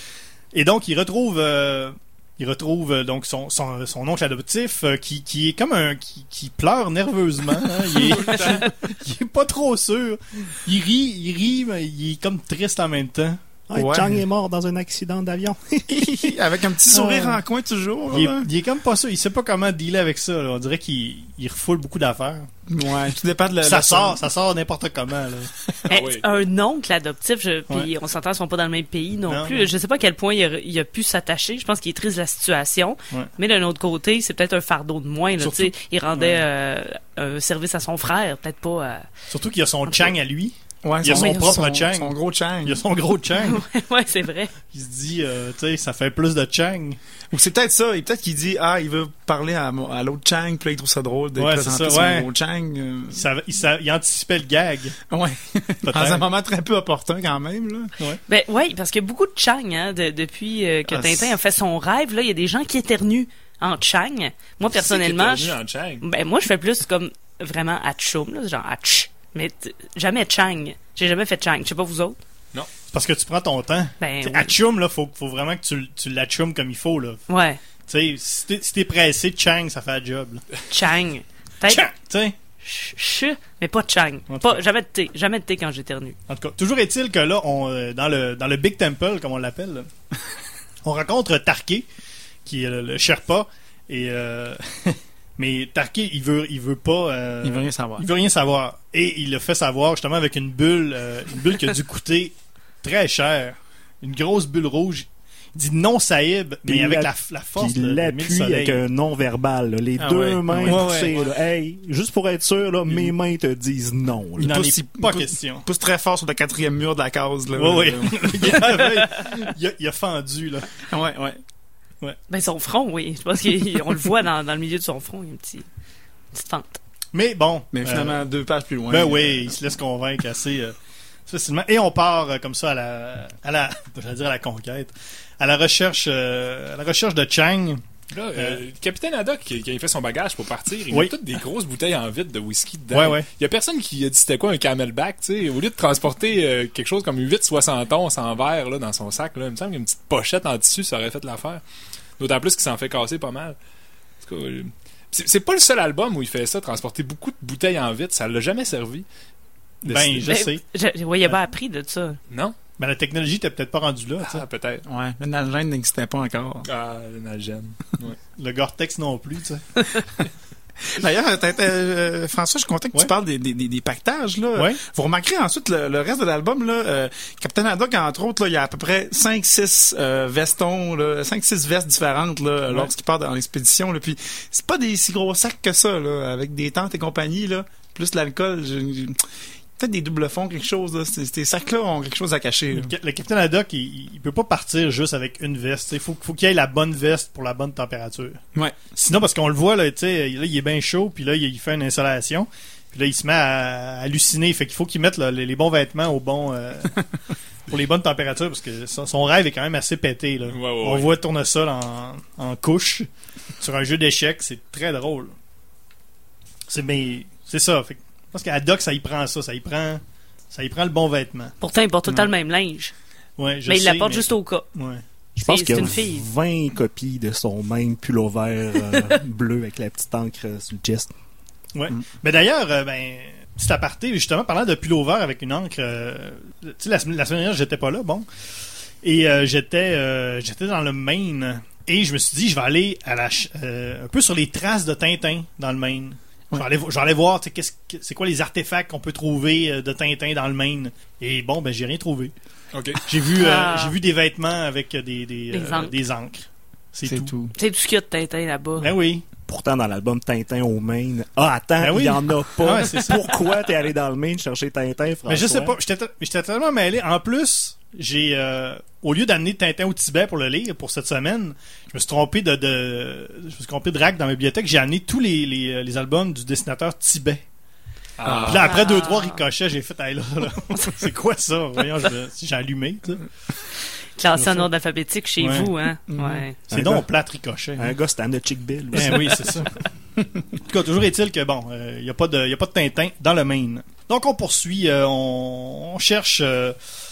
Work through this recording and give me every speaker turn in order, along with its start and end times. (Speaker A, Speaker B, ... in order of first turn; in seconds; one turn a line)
Speaker A: 0.5-13.4
Speaker B: 7.9-8.7
Speaker C: 13.7-16.3
Speaker D: 13.7-14.2
Speaker D: 15.9-18.5
Speaker A: 16.9-17.4
Speaker A: 18.1-22.5
Speaker D: 22.7-24.2
Speaker A: 23.6-25.5
Speaker B: 25.9-26.3
Speaker E: 25.9-39.0
Speaker A: 29.3-29.7
Speaker A: 35.4-36.4
Speaker A: 39.3-43.6
Speaker D: 40.8-42.8
Speaker E: 41.1-41.5
Speaker E: 43.4-44.5
Speaker A: 44.7-47.0
Speaker D: 47.3-53.2
Speaker A: 51.4-52.3
Speaker A: 53.1-55.0
Speaker D: 55.1-57.9
Speaker A: 55.8-56.3
Speaker E: 58.3-72.2
Speaker D: 60.9-61.3
Speaker B: 64.7-66.0
Speaker A: 72.9-77.2
Speaker E: 74.0-74.5
Speaker E: 77.3-77.6
Speaker A: 77.9-80.4
Speaker E: 80.7-81.9
Speaker A: 81.7-82.3
Speaker E: 82.6-86.2
Speaker A: 84.3-84.6
Speaker A: 86.3-89.9
Speaker A: 90.8-91.9
Speaker A: 92.4-108.8
Speaker D: 97.4-98.1
Speaker C: 106.7-114.7
Speaker D: 110.0-110.9
Speaker A: 110.6-111.2
Speaker A: 114.4-115.7
Speaker D: 114.4-118.9
Speaker A: 117.5-120.8
Speaker D: 120.9-121.4
Speaker E: 122.3-125.7
Speaker E: 126.3-126.8
Speaker A: 127.1-128.2
Speaker D: 127.7-129.5
Speaker A: 128.9-130.7
Speaker A: 131.3-137.8
Speaker B: 138.1-151.6
Speaker A: 138.3-138.6
Speaker A: 142.9-143.2
Speaker B: 152.2-153.6
Speaker B: 154.2-159.0
Speaker A: 159.8-160.6
Speaker B: 159.8-160.3
Speaker E: 160.2-162.2
Speaker B: 162.3-162.6
Speaker A: 162.8-164.4
Speaker B: 164.2-164.8
Speaker D: 164.8-166.7
Speaker B: 166.6-168.2
Speaker A: 168.4-169.8
Speaker D: 170.8-189.2
Speaker A: 174.5-174.8
Speaker D: 189.8-192.9
Speaker A: 192.7-198.4
Speaker D: 198.5-198.8
Speaker A: 198.9-207.0
Speaker A: 207.7-213.1
Speaker B: 210.5-211.1
Speaker A: 213.6-215.3
Speaker A: 216.7-221.5
Speaker E: 221.6-222.9
Speaker A: 223.4-225.0
Speaker E: 223.7-224.7
Speaker E: 225.4-226.2
Speaker C: 225.4-231.1
Speaker A: 231.7-238.3
Speaker A: 239.0-252.3
Speaker B: 252.7-253.0
Speaker A: 253.1-257.3
Speaker E: 253.3-253.9
Speaker E: 255.5-255.9
Speaker D: 257.1-257.5
Speaker E: 257.5-258.9
Speaker A: 258.8-259.2
Speaker C: 259.5-265.8
Speaker A: 261.8-263.3
Speaker A: 265.3-277.4
Speaker B: 278.2-278.7
Speaker D: 278.2-278.7
Speaker A: 278.4-283.3
Speaker E: 278.6-279.4
Speaker E: 284.2-286.6
Speaker A: 284.3-284.7
Speaker A: 285.4-285.7
Speaker D: 286.1-286.4
Speaker C: 286.7-287.1
Speaker A: 286.7-287.9
Speaker C: 287.8-289.6
Speaker A: 288.9-289.7
Speaker A: 290.6-296.8